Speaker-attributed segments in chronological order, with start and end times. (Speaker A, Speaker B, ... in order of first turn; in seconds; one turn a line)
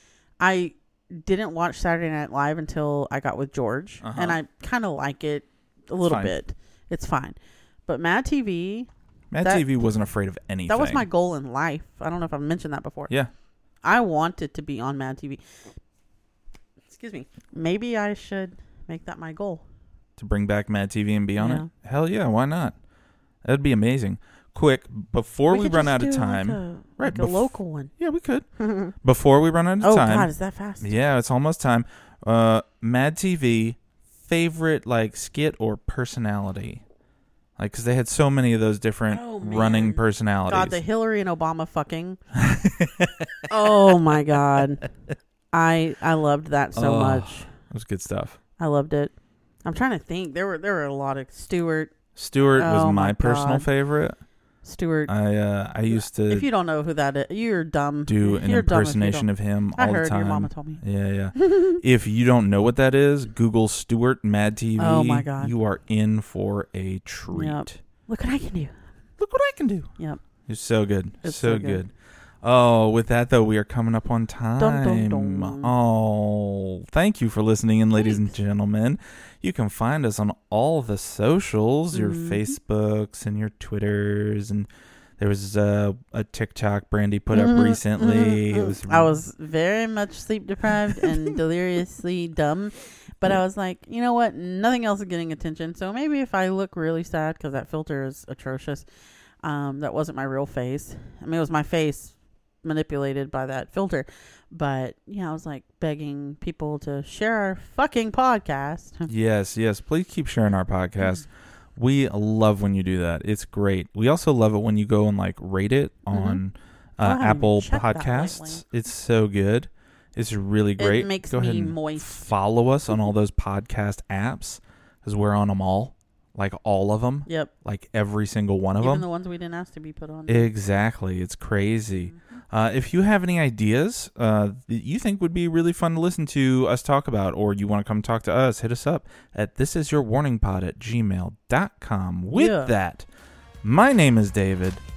Speaker A: 0.4-8.9
Speaker B: 4.0-4.4
Speaker B: 6.0-6.3
Speaker B: 9.3-11.1
Speaker A: 9.4-9.7
Speaker A: 10.7-13.1
Speaker A: 13.8-15.4
Speaker A: 16.9-19.6
Speaker B: 20.2-22.8
Speaker A: 21.4-21.7
Speaker B: 23.4-28.5
Speaker A: 25.5-27.9
Speaker A: 28.6-28.9
Speaker B: 29.0-30.3
Speaker A: 29.8-30.9
Speaker B: 30.8-36.8
Speaker B: 37.6-40.8
Speaker A: 39.1-42.2
Speaker B: 42.3-44.9
Speaker A: 43.5-44.9
Speaker A: 45.5-47.5
Speaker B: 46.8-48.4
Speaker A: 48.6-49.1
Speaker A: 49.6-52.0
Speaker B: 52.2-54.2
Speaker A: 52.6-53.7
Speaker A: 54.6-55.1
Speaker B: 55.1-56.5
Speaker A: 55.9-60.8
Speaker B: 58.1-67.8
Speaker A: 61.4-61.8
Speaker A: 64.8-65.5
Speaker A: 67.3-68.8
Speaker B: 69.2-69.9
Speaker B: 70.5-89.1
Speaker A: 71.2-71.8
Speaker A: 74.6-75.7
Speaker A: 81.9-82.5
Speaker A: 87.3-98.8
Speaker A: 99.4-109.1
Speaker B: 109.1-129.1
Speaker A: 116.1-116.4
Speaker A: 117.0-118.6
Speaker A: 120.8-122.2
Speaker A: 127.3-127.5
Speaker A: 128.8-130.5
Speaker B: 130.3-143.1
Speaker A: 142.3-142.7
Speaker B: 143.6-144.8